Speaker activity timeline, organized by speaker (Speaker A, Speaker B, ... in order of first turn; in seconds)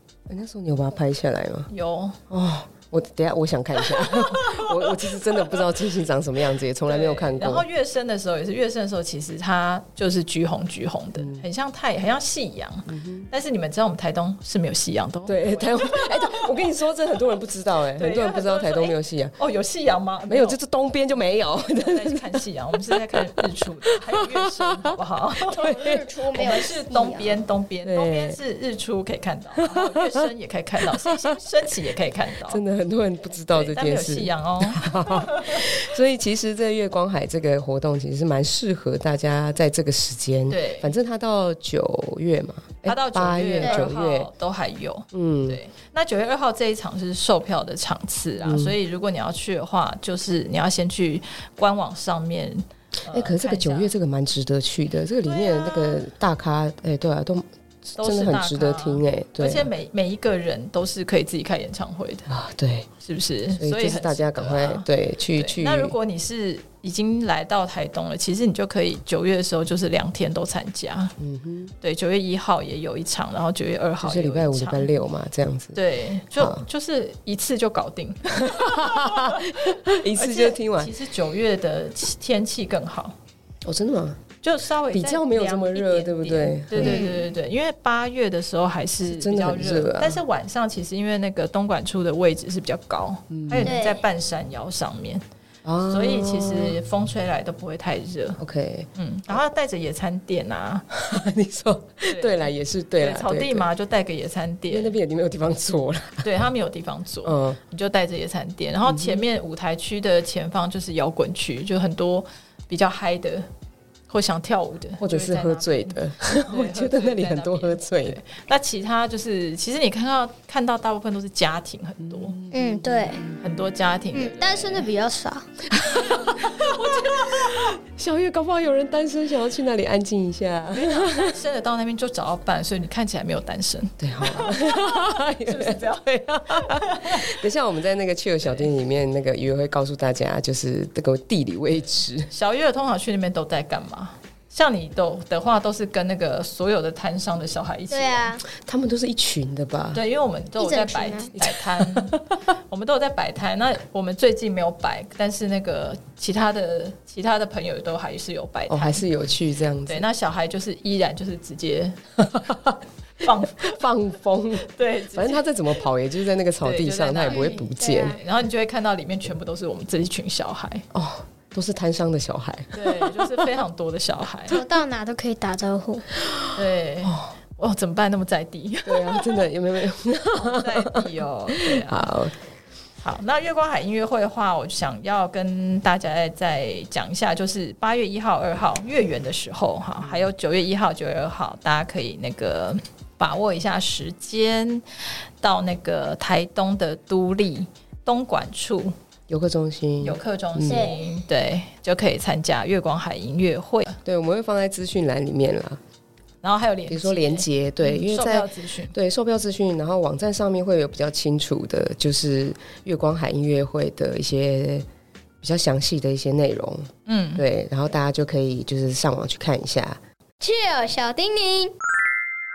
Speaker A: 0.3-1.7, 2.3-7.7, 11.2-11.4, 12.9-13.3, 15.3-19.4, 20.3-26.1, 27.8-28.4, 29.7-30.2, 32.4-44.3, 45.1-45.6, 48.4-48.8, 53.1-59.7, 62.3-62.9, 63.6-66.0, 71.2-71.7, 74.0-75.8, 76.3-76.6, 78.5-80.9, 83.6-84.2, 84.9-87.2, 89.0-90.2, 93.3-93.8, 95.6-96.8, 98.4-99.4, 100.9-103.7, 104.7-106.3, 107.2-107.6, 108.8-109.2, 115.0-118.2, 122.0-123.4, 125.8-131.3, 134.0-142.3, 148.5-150.0, 151.3-152.2, 158.7-160.1, 163.6-168.2, 170.9-173.4, 178.8-182.3, 199.3-200.9, 204.0-205.8, 206.9-214.8, 215.4-220.0
Speaker B: 1.7-2.2, 3.8-5.6, 6.8-16.5, 17.9-20.6, 21.6-25.8, 26.3-32.6, 33.5-35.7, 40.5-40.9, 42.8-53.9, 55.2-56.0, 58.0-62.3, 63.0-71.1, 71.8-74.9, 75.7-83.1, 84.4-95.2, 95.9-98.4, 99.0-100.8, 102.1-105.0, 106.2-113.5, 114.1-122.3, 123.4-124.9, 126.0-127.5, 130.7-137.3, 138.4-138.7, 142.3-148.3, 149.9-159.1, 159.8-162.2, 163.2-163.8, 164.6-165.5, 166.6-170.8, 172.7-174.6, 176.5-179.4, 180.3-182.1, 183.0-194.8, 195.4-198.9, 200.0-204.0, 206.4-208.9, 217.1-217.4
Speaker C: 25.6-27.4, 86.8-87.2, 93.6-94.0, 122.5-123.2, 124.1-125.5, 147.9-148.4, 150.6-151.3, 167.3-168.2, 174.5-176.1, 200.7-201.0, 220.4-221.7